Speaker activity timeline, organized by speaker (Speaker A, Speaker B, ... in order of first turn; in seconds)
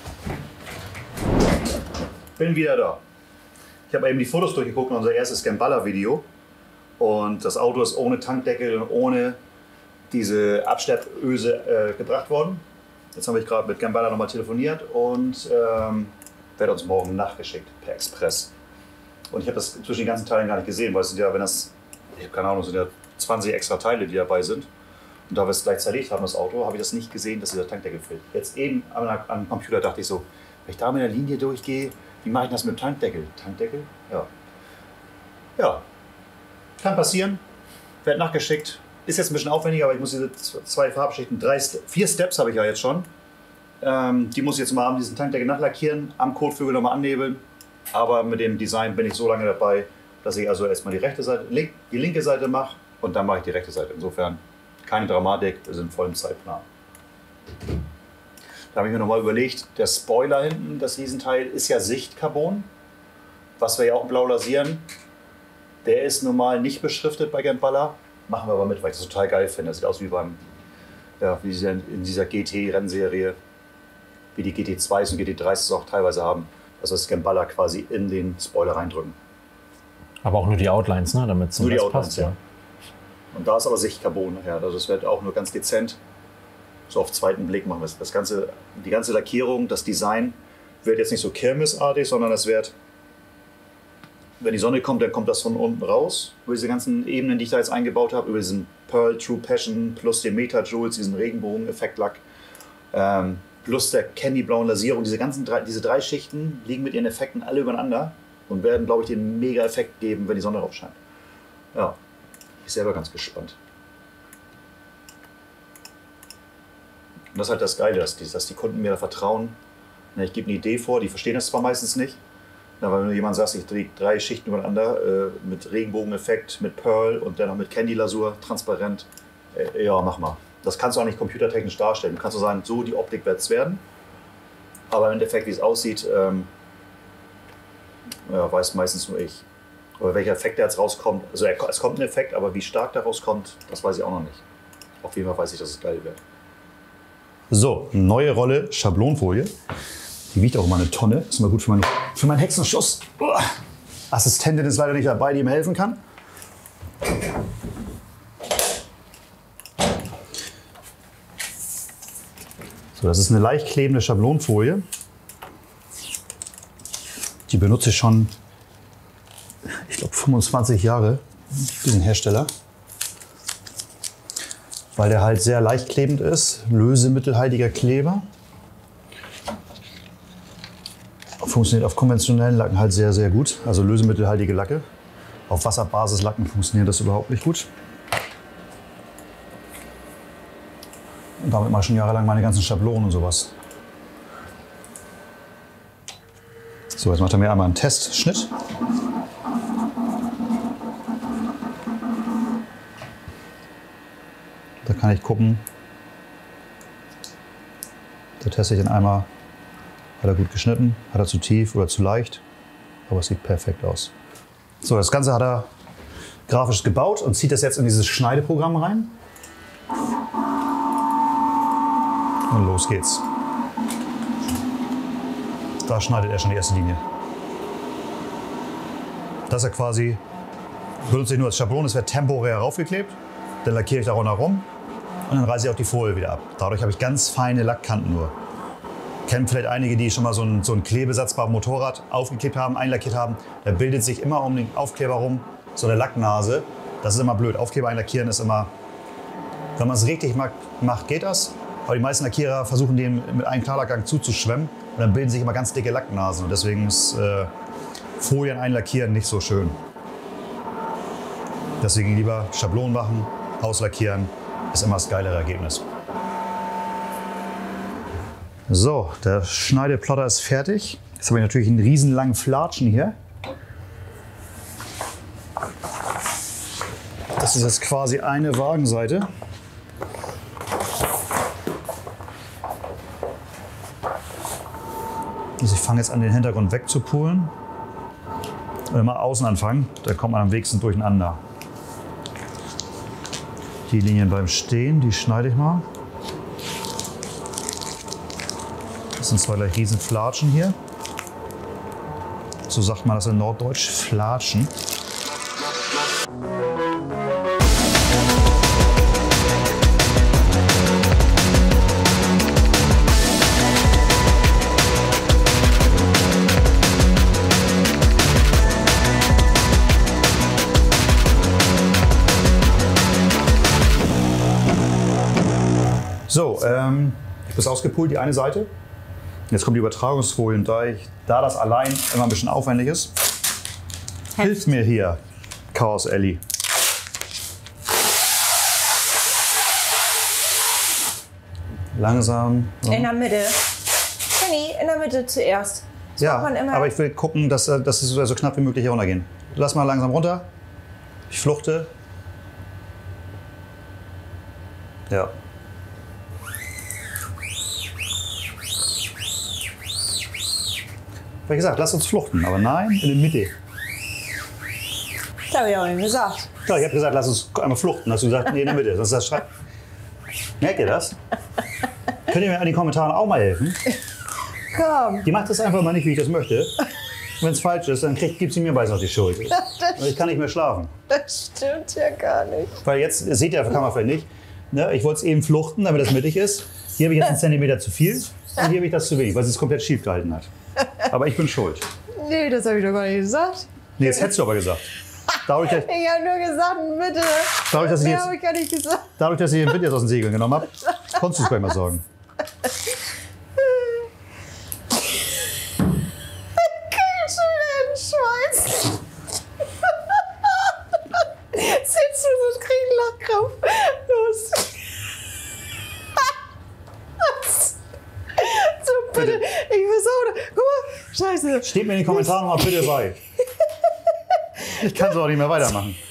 Speaker A: 2.4-3.0, 3.9-6.2, 7.0-9.4, 10.1-12.6, 13.1-18.5, 19.3-24.7, 25.3-34.3, 35.6-35.8, 36.8-37.4, 38.0-43.1, 43.8-56.6, 58.7-62.7, 63.6-64.8, 65.8-70.4, 71.2-73.3, 74.3-79.2, 81.6-82.4, 83.3-86.0, 86.9-92.7, 94.4-102.2, 102.9-111.0, 112.6-113.5, 117.3-119.5, 120.1-122.2, 122.8-133.8, 134.9-136.5, 138.3-139.4, 140.0-144.4, 145.0-146.2, 147.5-149.5, 150.3-153.5, 154.1-156.0, 162.9-164.8, 167.5-168.3, 169.7-172.5, 174.9-178.2, 181.4-184.8, 185.5-187.7, 191.4-193.5, 196.9-198.5, 204.8-205.6, 208.4-209.3, 210.2-212.4, 213.1-214.1, 214.8-215.7, 216.5-219.2, 222.5-223.2, 225.8-227.0, 229.5-230.2, 231.1-234.7, 235.3-238.3, 239.3-248.7, 249.8-257.5, 258.2-259.8, 261.8-265.8, 268.7-273.1, 277.4-279.3, 285.6-287.5, 288.9-291.4, 293.9-295.8, 299.2-300.8, 302.7-304.7, 326.3-328.7, 329.5-333.1, 334.4-335.2, 335.7-336.4, 341.9-343.1, 346.2-350.5, 351.3-351.9, 361.5-363.5, 366.6-369.5, 370.6-371.2, 372.3-373.8, 375.2-376.8, 377.4-380.9, 382.8-391.8, 394.0-394.9, 395.4-395.9, 397.7-398.3, 399.2-402.0, 419.1-419.4, 421.6-423.2, 424.7-426.0
Speaker B: 80.2-82.3
Speaker C: 342.9-343.7, 344.2-346.9, 365.5-366.5, 374.7-375.2, 381.1-382.8, 392.2-393.7, 395.6-399.1, 403.6-404.1, 406.6-409.0, 409.8-414.8, 417.2-417.7, 418.3-422.7